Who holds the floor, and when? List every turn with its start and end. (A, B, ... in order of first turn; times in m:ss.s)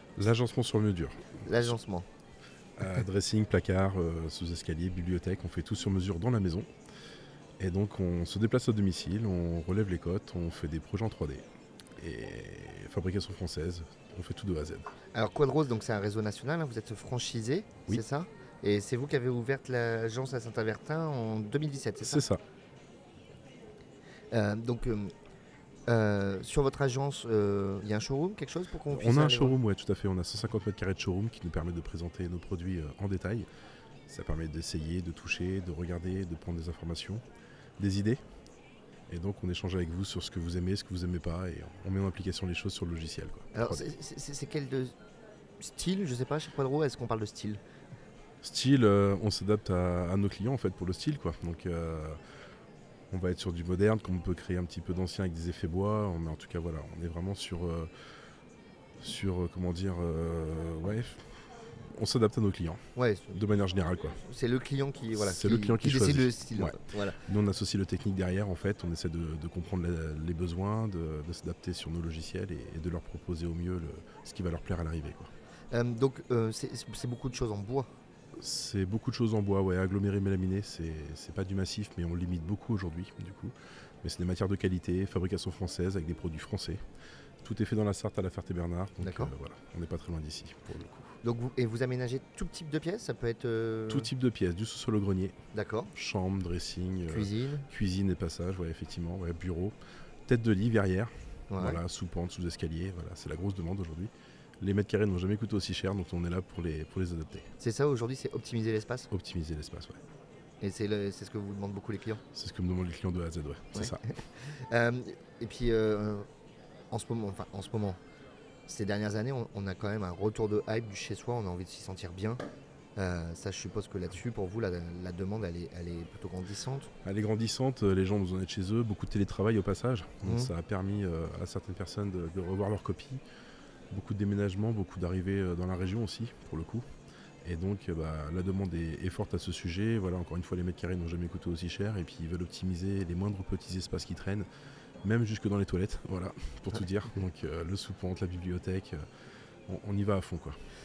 0:00.2-0:01.4 A
0:01.4-0:02.1 B
0:02.8-0:06.7 A
0:07.6-0:11.4 A
0:12.0-0:14.9 A
0:15.1-0:22.2 B
0:22.0-0:22.4 A
0:24.3-0:25.1 B
0:25.9-0:29.6 B
0:28.9-0:33.5 A
0:34.1-0:37.2 A
0:37.8-0:38.2 A
0:39.1-0:43.8 A
0:43.6-0:44.9 B
0:45.6-0:47.6 B
0:48.4-0:52.2 A
0:53.1-0:57.9 A
0:59.0-1:02.8 A
1:03.0-1:03.4 B
1:03.3-1:04.2 A
1:04.2-1:07.2 B
1:05.1-1:15.3 A
1:15.7-1:17.9 B
1:18.4-1:26.8 A
1:27.4-1:31.1 A
1:29.0-1:29.3 B
1:31.2-1:34.1 B
1:33.9-1:35.4 A
1:35.5-1:35.9 B
1:36.0-1:39.8 A
1:37.1-1:37.7 B
1:40.3-1:47.5 A
1:41.5-1:41.8 B
1:47.6-1:49.1 B
1:49.1-1:50.0 A
1:50.6-1:52.2 B
1:52.4-1:54.0 A
1:53.8-1:56.3 B
1:56.9-1:58.0 B
1:58.7-2:02.4 B
2:03.0-2:06.9 B
2:07.0-2:13.2 A
2:10.2-2:10.5 B
2:13.9-2:16.8 A
2:17.4-2:24.5 A
2:25.0-2:29.0 A
2:29.7-2:30.6 A